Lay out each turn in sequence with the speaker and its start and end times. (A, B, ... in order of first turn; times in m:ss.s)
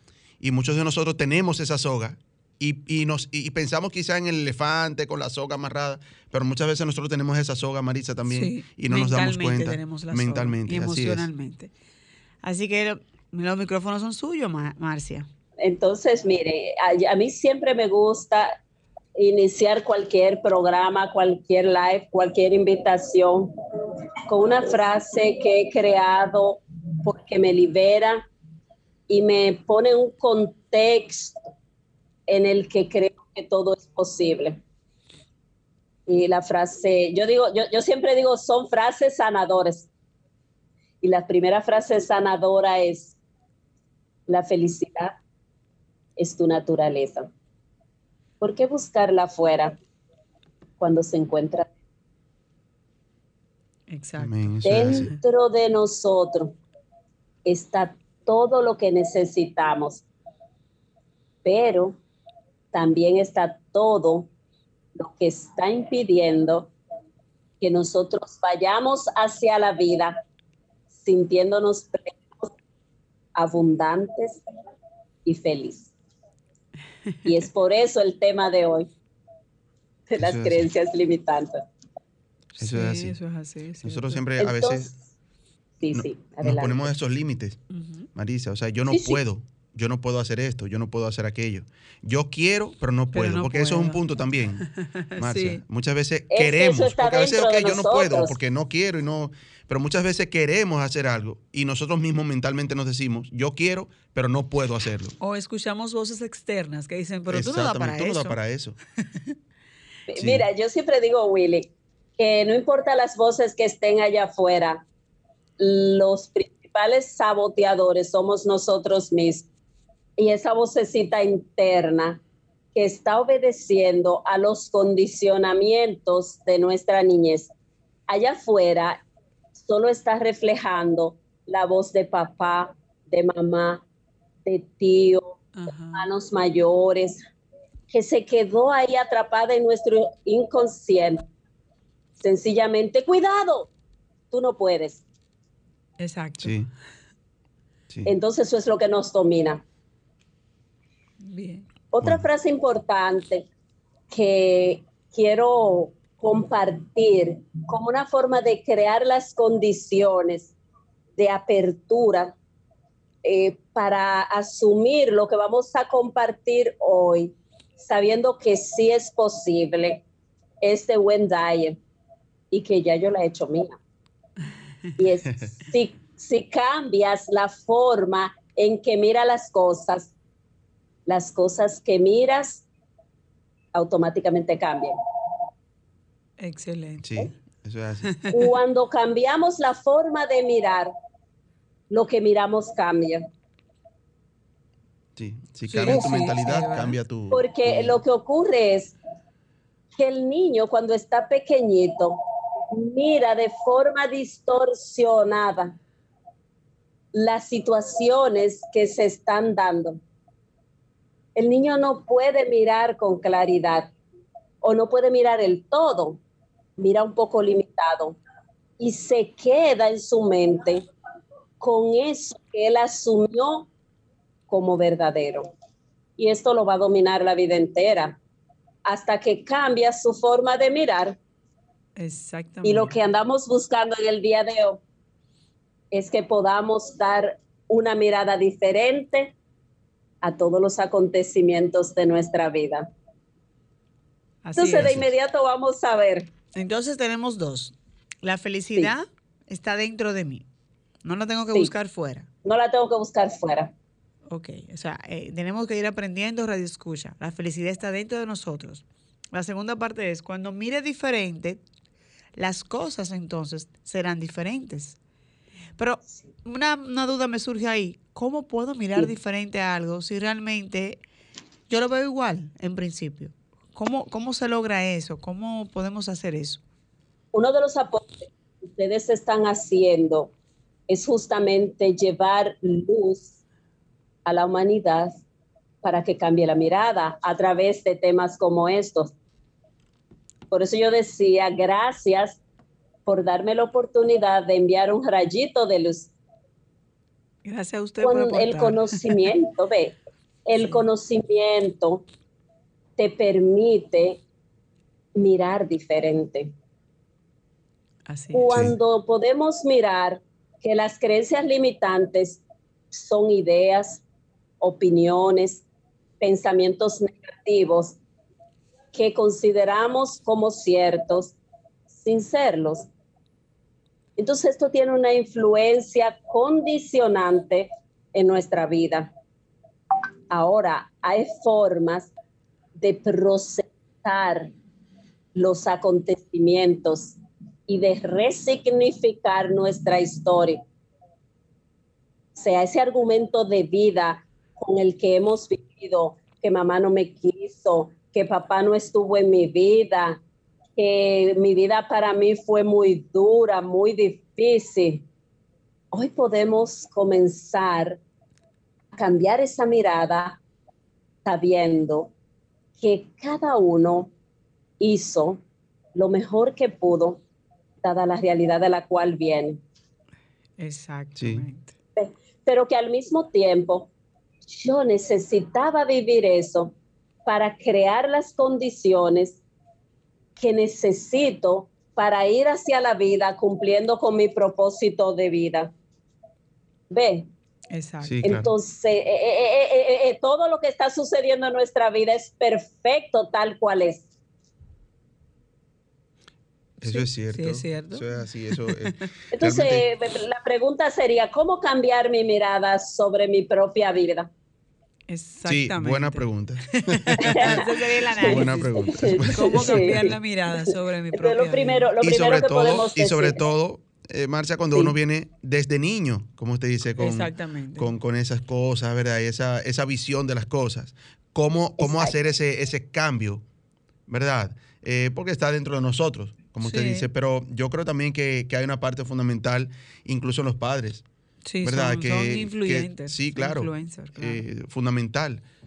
0:00.4-0:11.3 A
0:08.3-0:11.7 B
0:12.4-0:15.3 B
0:15.6-0:18.5 C
0:19.2-0:23.5 C
0:24.3-0:28.3 C
0:29.1-0:31.4 C
0:32.3-0:34.6 C
0:36.1-0:39.9 C
0:41.0-0:43.2 C
0:44.3-0:45.1 C
0:46.2-0:47.3 C
0:48.4-0:49.8 C
0:50.8-0:51.7 C
0:53.9-0:55.2 B
0:54.2-0:55.1 A
0:54.6-0:56.6 C
0:57.4-1:00.0 C
1:01.4-1:02.0 C
1:02.7-1:04.3 C
1:05.0-1:06.7 C
1:07.6-1:10.2 C
1:11.0-1:12.5 C
1:13.4-1:14.4 C
1:15.2-1:15.9 C
1:17.2-1:18.9 C
1:20.1-1:21.6 C
1:20.2-1:20.7 A
1:22.6-1:24.2 B
1:22.6-1:23.2 A
1:23.8-1:24.9 A
1:24.4-1:25.0 C
1:25.8-1:26.9 C
1:25.9-1:27.6 A
1:27.7-1:28.1 B
1:28.2-1:34.6 A
1:28.9-1:29.2 C
1:33.1-1:34.0 B
1:34.6-1:35.6 B
1:35.2-1:45.1 A
1:36.3-1:38.4 C
1:45.2-1:48.4 B
1:47.3-1:48.8 A
1:50.1-1:54.9 C
1:50.2-1:50.4 A
1:55.6-1:59.5 C
2:00.2-2:02.2 C
2:02.8-2:07.5 C
2:08.1-2:09.0 C
2:09.6-2:13.8 C
2:14.4-2:15.4 C
2:15.6-2:16.1 B
2:15.9-2:17.2 C
2:17.9-2:21.2 C
2:22.2-2:23.7 C
2:24.3-2:25.0 C
2:26.0-2:26.6 B
2:26.4-2:26.7 A
2:28.1-2:29.6 C
2:31.2-2:31.7 B
2:31.9-2:33.5 C
2:34.1-2:40.5 C
2:41.2-2:42.4 C
2:43.2-2:50.0 C
2:50.6-2:51.8 C
2:52.5-2:53.8 C
2:55.0-3:00.1 C
3:01.1-3:02.6 C
3:03.7-3:05.0 C
3:06.4-3:07.1 B
3:07.0-3:08.1 A
3:08.1-3:08.3 B
3:08.3-3:10.9 C
3:11.9-3:13.2 C
3:15.2-3:18.0 A
3:15.7-3:17.0 B
3:17.3-3:19.0 C
3:20.0-3:22.2 C
3:22.7-3:25.8 C
3:27.1-3:30.0 C
3:31.4-3:33.9 C
3:34.6-3:36.2 C
3:36.8-3:38.2 C
3:38.8-3:40.8 C
3:41.6-3:43.7 C
3:44.5-3:45.5 C
3:46.2-3:48.2 C
3:48.8-3:51.2 C
3:52.0-3:53.0 B
3:52.6-3:54.8 C
3:55.9-3:59.4 C
4:00.2-4:02.9 C
4:04.4-4:05.0 B
4:04.6-4:06.3 C
4:04.8-4:05.1 A
4:06.6-4:10.5 B
4:11.0-4:12.3 B
4:12.4-4:13.7 C
4:14.3-4:21.6 B
4:22.4-4:25.0 B
4:25.8-4:31.0 B
4:31.7-4:36.6 B
4:37.3-4:40.3 C
4:40.9-4:43.3 C
4:44.2-4:45.2 C
4:45.8-4:49.1 C
4:50.5-4:52.4 C
4:53.1-4:56.1 C
4:57.4-4:59.3 B
4:58.0-5:02.0 C
5:03.0-5:04.2 C
5:05.2-5:06.5 C
5:08.1-5:08.6 B
5:08.3-5:12.4 C
5:08.5-5:08.8 A
5:12.9-5:14.0 C
5:14.6-5:15.6 C
5:16.2-5:18.0 C
5:18.9-5:21.4 C
5:21.9-5:22.9 C
5:24.2-5:29.1 C
5:30.3-5:32.1 C
5:32.8-5:34.5 C
5:35.4-5:37.2 C
5:37.7-5:40.6 C
5:42.4-5:50.2 C
5:50.8-5:55.0 C
5:55.9-5:58.0 C
5:58.9-6:00.4 C
6:01.2-6:02.1 C
6:02.8-6:04.1 C
6:04.8-6:05.4 C
6:06.0-6:07.2 C
6:07.8-6:09.6 C
6:10.6-6:11.7 B
6:11.2-6:11.4 A
6:12.0-6:13.9 C
6:14.5-6:16.8 C
6:17.3-6:19.4 C
6:20.4-6:25.7 C
6:26.9-6:27.3 C
6:27.7-6:28.2 B
6:28.0-6:28.5 A
6:28.2-6:34.0 C
6:36.8-6:39.0 B
6:36.8-6:39.9 A
6:39.3-6:44.3 C
6:45.1-6:51.9 B
6:45.4-6:47.6 A
6:47.2-6:47.6 C
6:48.2-6:50.0 A
6:48.2-6:53.4 C
6:52.0-7:03.4 A
6:57.0-6:57.9 B
7:01.8-7:02.2 C
7:04.1-7:11.0 A
7:06.6-7:07.1 B
7:11.5-7:14.4 B
7:11.6-7:15.4 A